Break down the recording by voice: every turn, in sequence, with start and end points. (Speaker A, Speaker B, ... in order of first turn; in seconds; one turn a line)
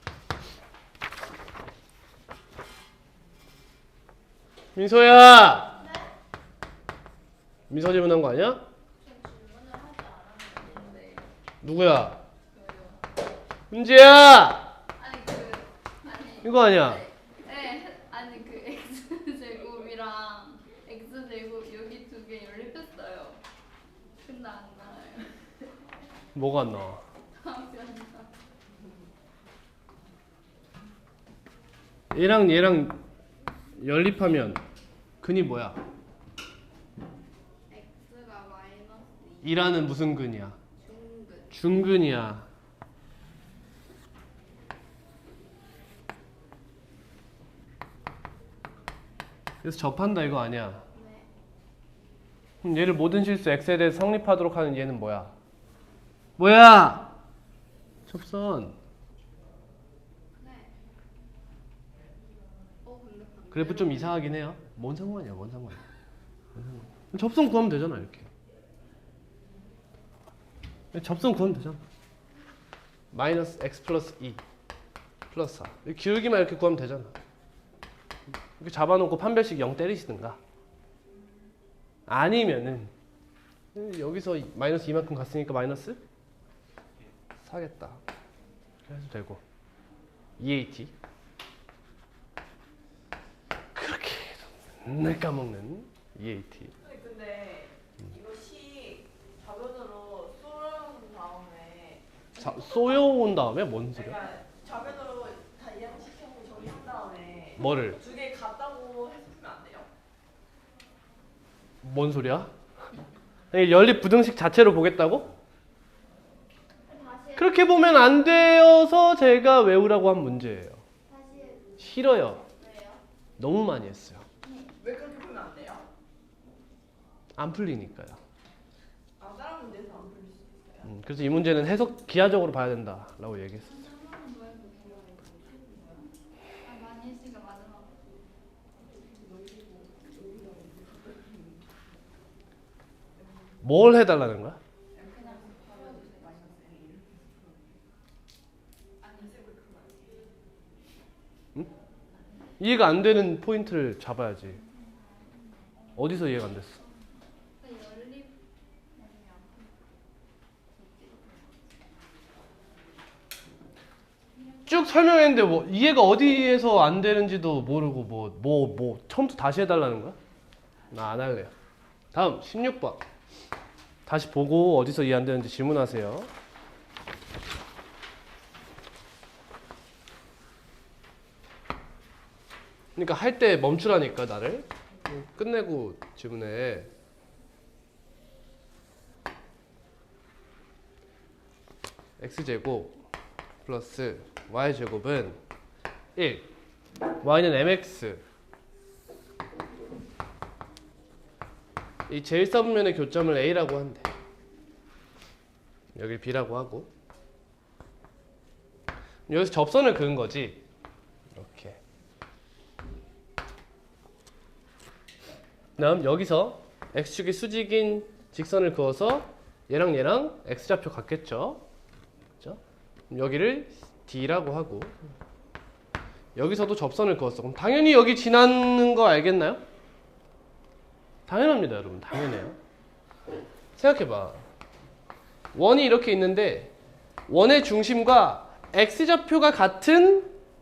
Speaker A: 4.8-5.8
Speaker B: 5.8-6.1
Speaker A: 7.7-8.6
Speaker B: 9.0-11.3
Speaker A: 11.6-12.2
Speaker B: 12.5-13.0
Speaker A: 13.7-14.7
Speaker B: 15.0-23.4
Speaker A: 16.4-17.1
Speaker B: 24.2-25.3
Speaker A: 26.4-27.0
Speaker B: 27.3-28.3
Speaker A: 32.1-33.0
Speaker A: 33.8-34.6
Speaker A: 35.2-35.8
Speaker B: 37.7-39.8
Speaker A: 39.4-40.6
Speaker B: 40.8-41.5
Speaker A: 41.5-42.5
Speaker A: 49.6-50.9
Speaker B: 50.9-51.3
Speaker A: 52.6-55.3
Speaker A: 56.4-57.1
Speaker A: 58.1-58.8
Speaker B: 60.4-60.7
Speaker B: 62.8-64.3
Speaker A: 63.5-65.8
Speaker A: 66.5-68.3
Speaker A: 70.9-71.8
Speaker A: 73.1-74.4
Speaker A: 75.3-77.2
Speaker A: 78.6-80.4
Speaker A: 82.1-82.9
Speaker A: 83.7-86.0
Speaker A: 87.4-88.0
Speaker A: 88.9-89.4
Speaker A: 90.4-90.9
Speaker A: 93.8-96.7
Speaker C: 96.8-102.0
Speaker A: 102.4-104.2
Speaker C: 102.7-103.0
Speaker C: 104.0-109.9
Speaker A: 107.6-108.0
Speaker A: 111.8-112.5
Speaker A: 113.5-115.3
Speaker B: 116.8-118.5
Speaker A: 117.4-120.8
Speaker B: 121.1-121.8
Speaker A: 121.8-122.5
Speaker B: 122.4-123.0
Speaker A: 123.4-124.3
Speaker B: 124.4-124.7
Speaker C: 124.8-125.9
Speaker A: 127.4-128.2
Speaker C: 129.2-130.9
Speaker A: 130.8-133.9
Speaker B: 133.6-136.1
Speaker B: 136.6-137.9
Speaker C: 139.2-141.3
Speaker A: 143.6-144.6
Speaker C: 144.9-147.3
Speaker B: 145.1-146.3
Speaker C: 149.0-150.3
Speaker A: 152.6-154.6
Speaker B: 154.6-156.0
Speaker A: 155.9-156.8
Speaker B: 156.8-158.4
Speaker B: 158.9-159.8
Speaker B: 160.7-161.6
Speaker B: 164.5-165.0
Speaker A: 164.7-170.2
Speaker A: 170.9-171.5
Speaker A: 172.1-173.0
Speaker A: 174.1-176.3
Speaker A: 183.0-186.9
Speaker A: 192.2-193.0
Speaker A: 193.6-195.4
Speaker A: 196.2-196.5
Speaker A: 197.2-198.2
Speaker A: 202.1-204.1
Speaker A: 205.9-206.9
Speaker A: 209.3-210.6
Speaker A: 211.3-211.8
Speaker A: 215.8-221.6
Speaker A: 222.4-225.0
Speaker A: 226.4-229.6
Speaker A: 231.3-232.6
Speaker A: 233.8-234.5
Speaker A: 235.5-236.7
Speaker A: 237.3-240.3